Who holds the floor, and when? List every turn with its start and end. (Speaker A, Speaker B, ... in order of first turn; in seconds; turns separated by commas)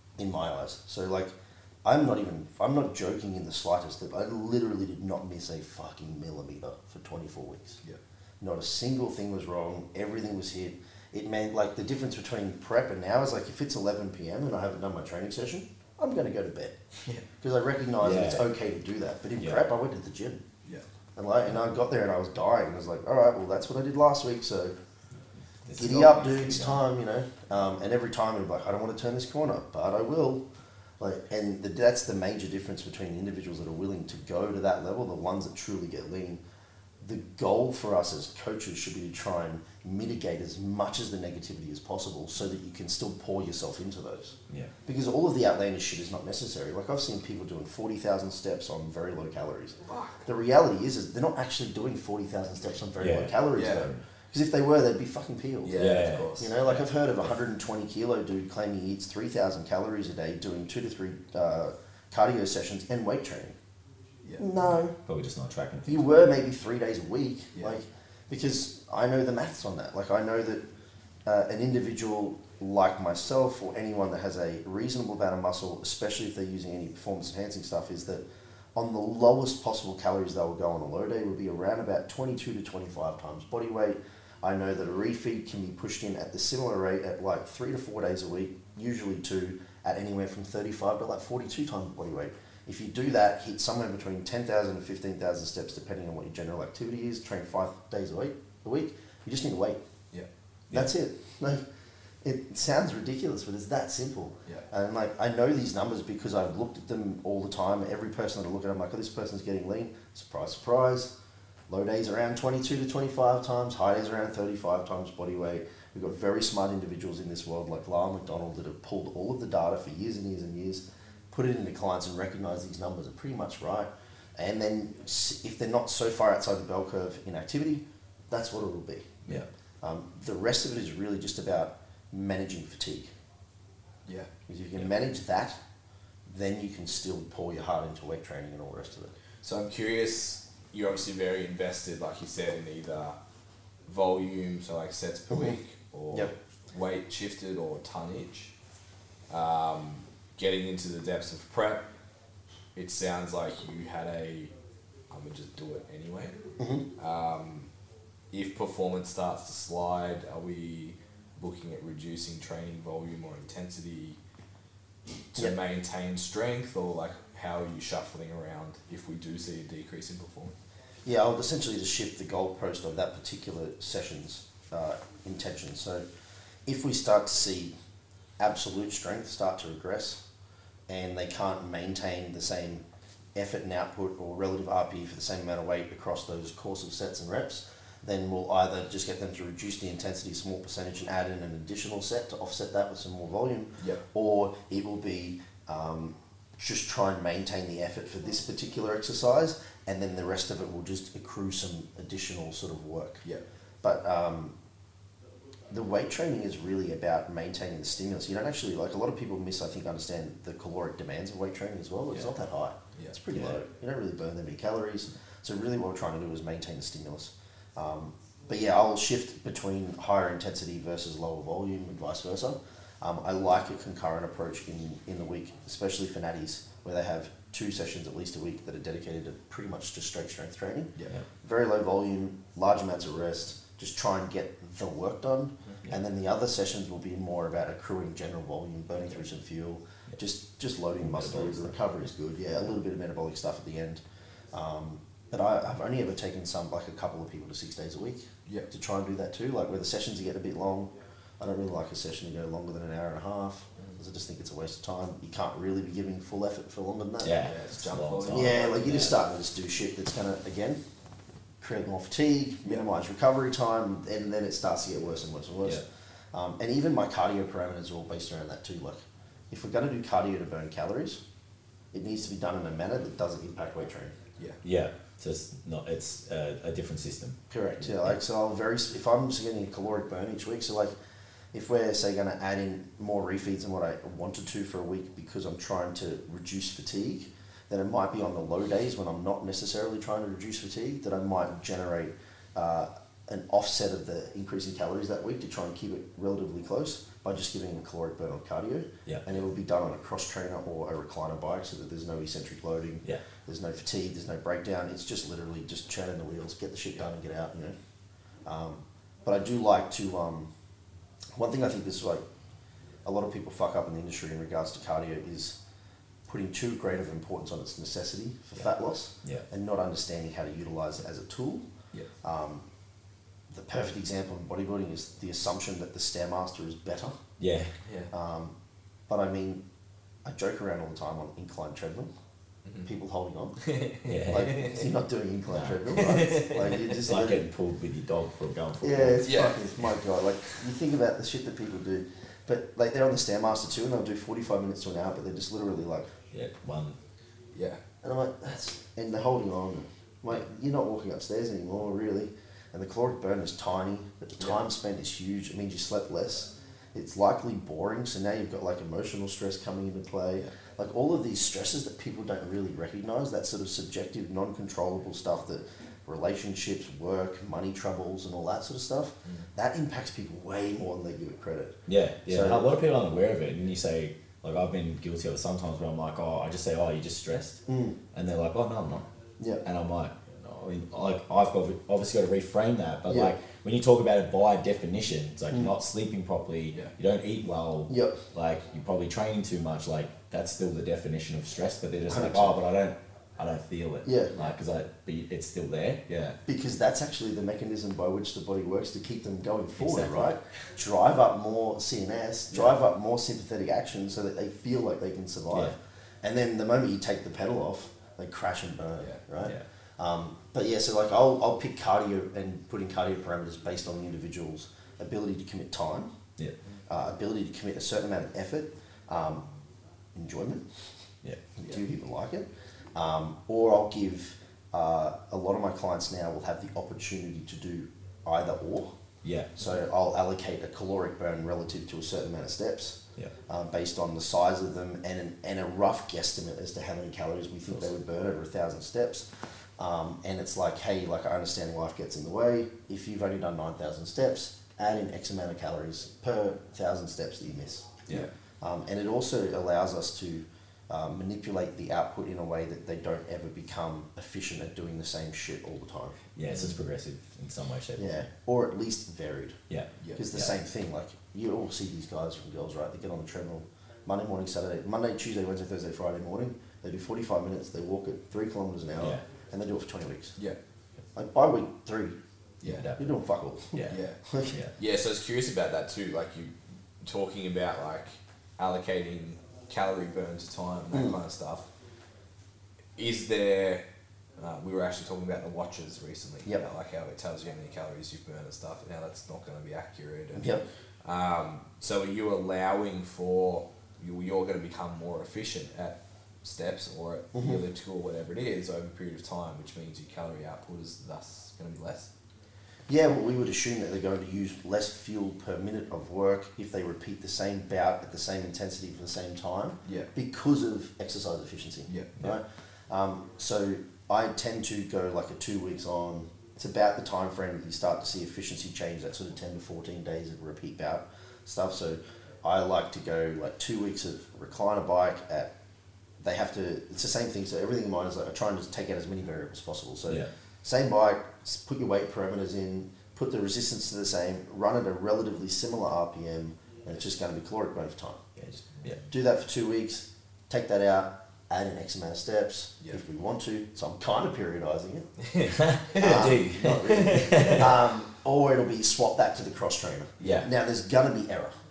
Speaker A: 0.2-7.8, Speaker A: 8.4-16.8, Speaker A: 17.4-20.4, Speaker B: 18.0-18.5, Speaker A: 21.2-24.7, Speaker B: 25.7-26.8, Speaker A: 25.8-30.4, Speaker A: 31.0-36.4, Speaker A: 37.0-63.6, Speaker C: 49.9-50.3, Speaker B: 53.0-54.0, Speaker C: 53.5-53.9, Speaker C: 55.6-56.5, Speaker B: 55.8-56.8, Speaker A: 64.4-65.0, Speaker B: 65.1-66.3, Speaker A: 65.9-70.6, Speaker A: 71.2-78.2, Speaker A: 78.8-99.8, Speaker A: 100.7-101.6, Speaker A: 102.2-111.1, Speaker A: 111.7-129.2, Speaker A: 129.8-133.1, Speaker A: 134.5-135.6, Speaker A: 136.3-139.2, Speaker C: 139.4-143.2, Speaker C: 143.9-148.5, Speaker C: 149.3-151.9, Speaker C: 152.8-154.5, Speaker C: 155.1-156.4, Speaker A: 156.6-156.8, Speaker C: 157.0-157.7, Speaker C: 158.3-164.2, Speaker C: 165.3-170.5, Speaker A: 171.1-176.0, Speaker A: 176.7-177.7, Speaker A: 178.4-180.2, Speaker A: 180.9-182.8, Speaker A: 183.3-203.2, Speaker A: 203.8-204.5, Speaker A: 205.7-257.4, Speaker B: 241.0-241.7, Speaker B: 257.2-259.1, Speaker C: 257.4-259.1, Speaker A: 258.3-260.8, Speaker A: 261.6-271.2, Speaker A: 271.9-274.1, Speaker B: 274.6-278.1, Speaker A: 277.5-280.9, Speaker A: 281.5-307.8, Speaker A: 308.4-310.5, Speaker A: 311.4-312.2, Speaker A: 313.1-315.6, Speaker A: 316.3-321.6, Speaker A: 322.2-322.6, Speaker A: 323.5-327.2, Speaker B: 327.4-327.7, Speaker C: 327.9-328.1, Speaker A: 328.1-328.6, Speaker A: 329.1-329.6, Speaker A: 330.2-332.1, Speaker A: 332.8-333.6, Speaker C: 333.6-334.9, Speaker B: 334.1-334.6, Speaker A: 334.3-337.5, Speaker B: 335.5-336.0, Speaker C: 335.9-337.1, Speaker B: 337.0-339.3, Speaker A: 338.8-346.1, Speaker C: 339.2-339.6, Speaker B: 346.3-347.0, Speaker C: 347.5-347.8, Speaker A: 348.0-372.8, Speaker B: 371.9-379.1, Speaker A: 377.7-378.0, Speaker B: 379.6-396.4, Speaker A: 383.1-383.3, Speaker A: 387.9-388.2, Speaker A: 392.1-392.6, Speaker A: 394.1-394.4, Speaker A: 396.5-416.1, Speaker B: 399.8-400.4, Speaker A: 416.9-419.5, Speaker A: 420.1-420.6, Speaker A: 421.6-428.9, Speaker B: 429.2-429.6, Speaker A: 429.6-439.3, Speaker A: 439.8-448.1, Speaker A: 448.6-456.2, Speaker B: 456.4-458.1, Speaker C: 456.5-456.8, Speaker A: 458.0-459.6, Speaker B: 459.7-460.5, Speaker C: 460.0-460.2, Speaker A: 460.2-470.4, Speaker A: 471.1-472.2, Speaker C: 472.6-472.9, Speaker B: 472.7-473.1, Speaker A: 473.0-474.6, Speaker B: 473.7-474.7, Speaker C: 473.9-474.2, Speaker C: 474.8-481.7, Speaker C: 483.0-483.8, Speaker C: 484.4-502.1, Speaker A: 490.4-490.6, Speaker A: 497.3-497.6, Speaker A: 502.9-525.5, Speaker C: 509.9-510.1, Speaker A: 526.2-538.2, Speaker B: 538.4-539.0, Speaker A: 539.1-545.1, Speaker C: 545.2-547.7, Speaker B: 545.6-547.7, Speaker A: 546.0-551.5, Speaker C: 550.2-550.5, Speaker B: 550.2-550.5